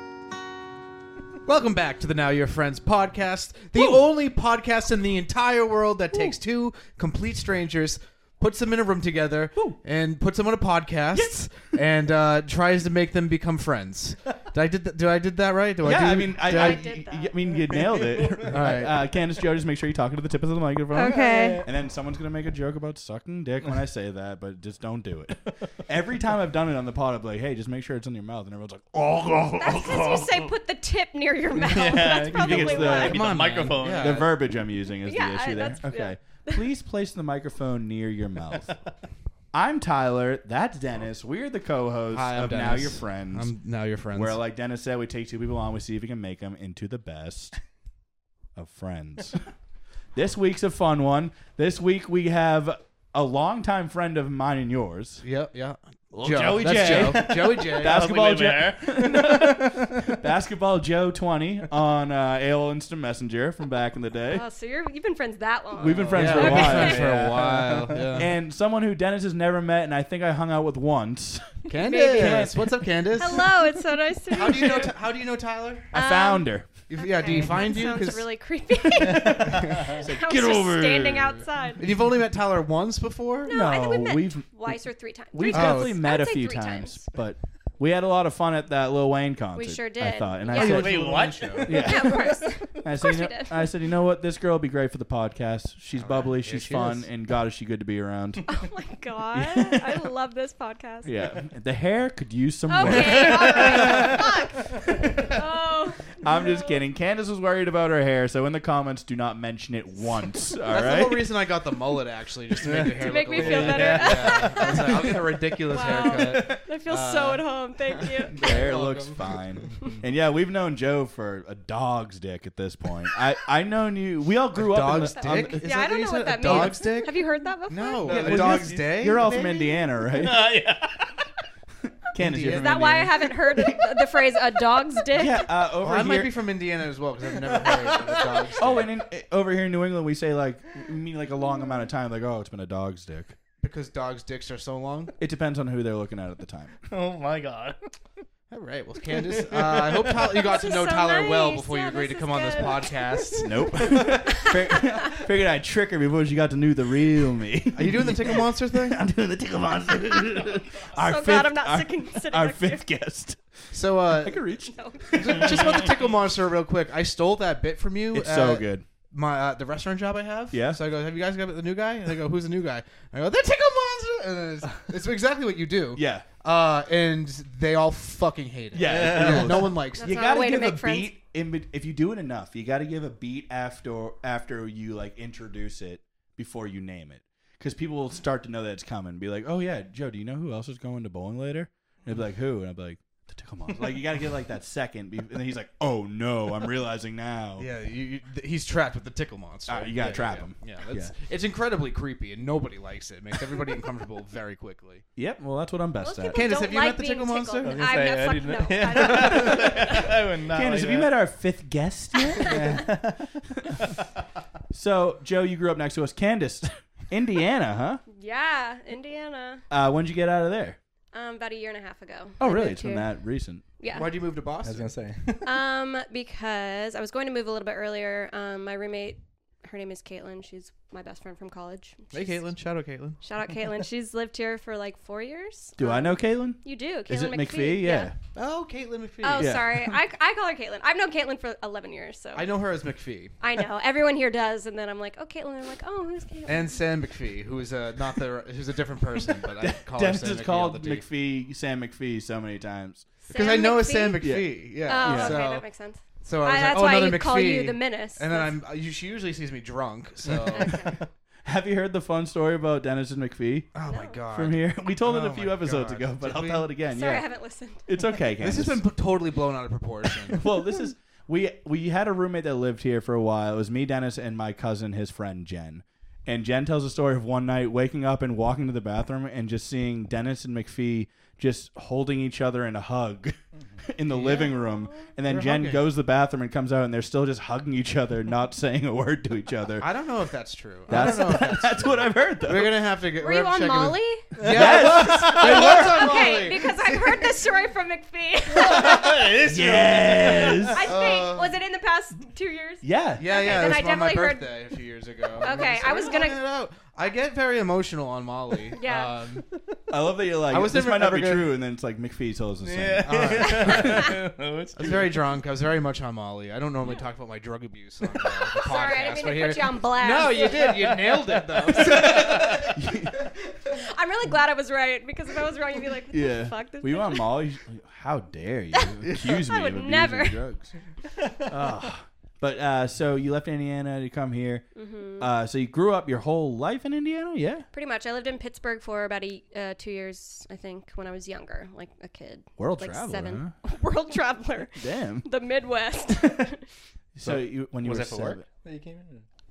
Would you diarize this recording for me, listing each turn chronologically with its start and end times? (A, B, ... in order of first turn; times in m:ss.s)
0:01.5-0:16.8 A
0:03.7-0:04.0 B
0:15.8-0:30.2 B
0:16.5-0:17.5 C
0:17.7-0:18.9 D
0:18.5-0:18.9 A
0:20.9-0:21.6 C
0:21.0-0:21.7 D
0:29.6-0:33.2 C
0:29.9-0:30.5 D
0:31.5-0:34.3 D
0:32.3-0:33.3 B
0:32.9-0:34.3 A
0:33.9-0:38.7 B
0:35.0-0:36.7 C
0:39.5-0:43.5 B
0:42.1-0:44.4 A
0:44.1-0:47.6 B
0:48.6-0:49.4 B
0:50.1-0:55.2 B
0:55.2-0:58.0 A
0:56.1-1:04.4 B
0:56.4-1:00.1 D
1:04.3-1:07.0 C
1:05.8-1:07.4 B
1:06.1-1:08.3 A
1:07.0-1:08.2 D
1:08.1-1:12.6 B
1:11.7-1:13.6 A
1:11.8-1:12.4 C
1:13.2-1:14.9 C
1:14.3-1:15.9 A
1:15.9-1:16.7 B
1:15.9-1:21.8 C
1:16.9-1:18.2 A
1:18.9-1:21.4 B
1:21.8-1:23.5 A
1:23.4-1:27.1 C
1:23.5-1:31.0 B
1:25.5-1:26.0 A
1:29.6-1:30.9 C
1:30.5-1:32.0 A
1:30.6-1:32.2 D
1:31.6-1:38.4 B
1:31.8-1:33.7 C
1:36.0-1:37.0 A
1:38.5-1:41.2 C
1:39.3-1:40.0 B
1:41.0-1:44.2 B
1:42.7-1:46.8 C
1:42.8-1:44.1 D
1:46.2-1:51.2 B
1:50.7-1:59.4 A
1:52.6-1:54.7 D
1:53.0-1:58.4 C
1:55.8-1:56.6 B
1:58.3-2:05.6 B
2:04.5-2:09.6 A
2:05.2-2:08.1 C
2:06.4-2:06.7 B
2:08.0-2:09.2 D
2:08.0-2:10.5 B
2:10.0-2:11.2 D
2:12.1-2:13.8 B
2:12.2-2:12.8 A
2:12.5-2:15.4 C
2:15.1-2:16.4 B
2:15.8-2:18.9 A
2:17.4-2:18.4 D
2:18.6-2:23.4 B
2:23.6-2:25.2 A
2:25.2-2:26.8 B
2:26.9-2:27.9 D
2:28.5-2:34.0 A
2:29.2-2:30.3 D
2:30.3-2:35.1 C
2:33.4-2:46.0 B
2:37.7-2:39.0 A
2:41.0-2:42.8 C
2:43.7-2:44.4 A
2:44.7-2:45.4 C
2:45.1-3:00.1 A
2:48.1-2:48.8 B
2:50.5-2:50.8 B
2:55.9-2:56.2 B
2:58.7-3:17.7 B
2:58.8-2:59.7 D
3:00.0-3:01.1 C
3:17.6-3:25.0 A
3:19.7-3:21.1 B
3:20.0-3:20.2 D
3:25.2-3:26.4 B
3:26.0-3:30.1 C
3:26.3-3:27.8 A
3:27.6-3:31.1 D
3:29.3-3:29.9 B
3:30.5-3:32.8 B
3:32.3-3:32.5 C
3:32.4-3:33.9 D
3:34.7-3:38.0 B
3:38.1-3:39.6 C
3:39.7-3:40.8 B
3:41.1-3:43.1 C
3:42.4-3:43.6 B
3:43.8-3:44.1 C
3:43.9-3:44.9 A
3:44.6-3:45.5 D
3:45.4-3:52.4 C
3:52.1-3:53.2 A
3:53.2-3:58.1 C
3:55.8-3:58.2 B
3:58.3-3:59.6 A
3:59.2-4:02.5 C
3:59.4-4:00.0 B
4:02.3-4:03.3 A
4:03.4-4:06.8 C
4:06.5-4:11.0 A
4:09.6-4:13.0 B
4:13.3-4:18.5 C
4:13.3-4:15.6 A
4:14.2-4:15.4 B
4:16.2-4:20.8 A
4:20.5-4:20.8 D
4:20.5-4:21.0 C
4:21.4-4:23.7 B
4:23.7-4:26.7 A
4:23.9-4:24.2 C
4:24.3-4:27.3 B
4:26.9-4:28.0 C
4:27.8-4:28.8 B
4:28.4-4:30.4 A
4:30.3-4:49.9 B
4:44.1-4:44.5 A
4:44.2-4:45.1 C
4:45.3-4:45.8 A
4:49.8-4:57.0 A
4:50.9-4:52.8 B
4:53.2-4:54.3 C
4:54.4-4:55.9 D
4:54.4-4:56.3 B
4:55.4-4:59.3 C
4:58.6-5:00.9 D
4:59.4-5:00.9 B
5:00.7-5:04.5 C
5:00.8-5:01.5 A
5:02.8-5:03.2 B
5:03.2-5:09.5 A
5:05.4-5:06.4 C
5:08.8-5:09.1 C
5:09.9-5:14.2 B
5:10.5-5:11.5 A
5:12.6-5:15.2 D
5:13.0-5:14.1 A
5:13.6-5:14.1 C
5:14.8-5:22.8 A
5:18.6-5:20.9 C
5:20.4-5:22.7 D
5:21.9-5:23.2 B
5:23.7-5:27.4 C
5:26.1-5:30.7 B
5:28.7-5:30.4 C
5:31.4-5:34.6 B
5:34.8-5:35.3 C
5:35.2-5:37.7 B
5:37.7-5:46.6 C
5:42.6-5:43.5 B
5:44.8-5:45.3 B
5:47.2-5:48.4 B
5:47.2-5:49.3 D